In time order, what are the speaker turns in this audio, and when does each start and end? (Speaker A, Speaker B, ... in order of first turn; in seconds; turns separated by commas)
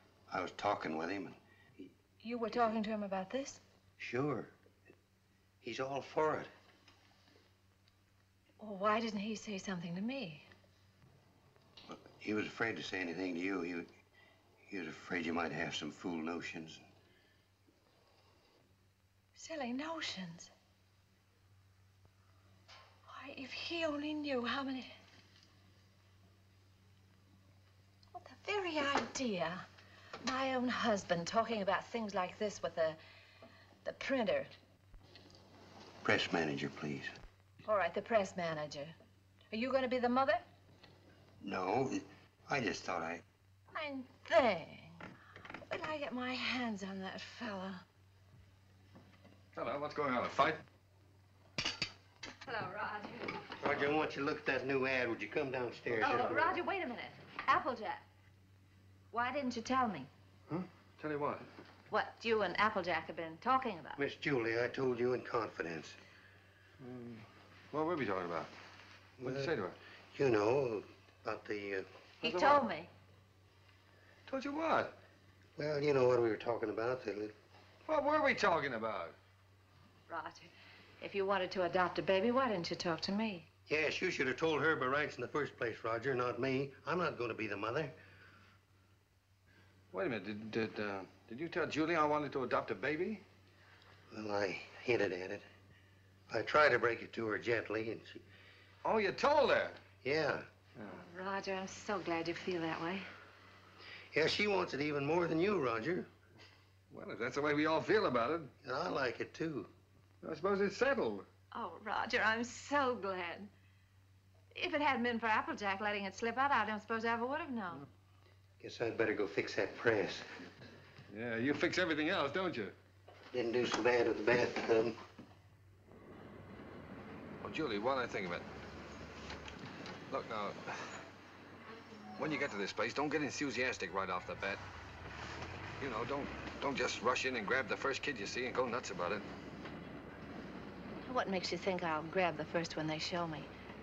Speaker A: 0.3-1.9, Speaker B: 2.2-3.6, Speaker A: 4.0-4.5, Speaker A: 5.6-6.5, Speaker B: 8.6-10.5, Speaker A: 11.9-13.9, Speaker A: 14.6-16.8, Speaker B: 19.4-20.5, Speaker B: 23.1-24.9, Speaker B: 28.1-29.7, Speaker B: 30.2-33.0, Speaker B: 33.8-34.5, Speaker A: 36.0-37.1, Speaker B: 37.7-39.0, Speaker B: 39.5-40.4, Speaker A: 41.4-43.2, Speaker B: 43.7-45.0, Speaker B: 45.7-47.9, Speaker C: 49.5-50.6, Speaker B: 52.5-53.5, Speaker A: 53.6-56.6, Speaker B: 56.0-58.0, Speaker B: 59.1-60.1, Speaker C: 60.5-61.5, Speaker B: 61.9-64.0, Speaker A: 64.0-66.0, Speaker C: 66.8-68.5, Speaker A: 69.2-69.5, Speaker C: 69.2-69.8, Speaker A: 70.1-71.9, Speaker B: 72.2-72.9, Speaker C: 72.2-72.6, Speaker C: 74.3-75.0, Speaker A: 75.6-77.3, Speaker C: 77.9-79.2, Speaker B: 80.1-83.5, Speaker A: 83.7-87.9, Speaker C: 89.9-93.2, Speaker A: 94.1-95.5, Speaker A: 96.3-98.2, Speaker C: 98.8-99.8, Speaker A: 100.0-100.5, Speaker C: 100.8-101.0, Speaker B: 101.0-103.1, Speaker A: 104.1-106.1, Speaker C: 106.9-108.5, Speaker A: 108.6-109.7, Speaker C: 110.2-111.3, Speaker B: 111.5-113.5, Speaker B: 114.5-117.8, Speaker A: 118.6-120.3, Speaker C: 121.1-122.8, Speaker A: 123.3-125.0, Speaker C: 127.4-128.5, Speaker C: 130.1-131.0, Speaker C: 132.2-134.6, Speaker C: 135.8-139.3, Speaker B: 141.0-143.5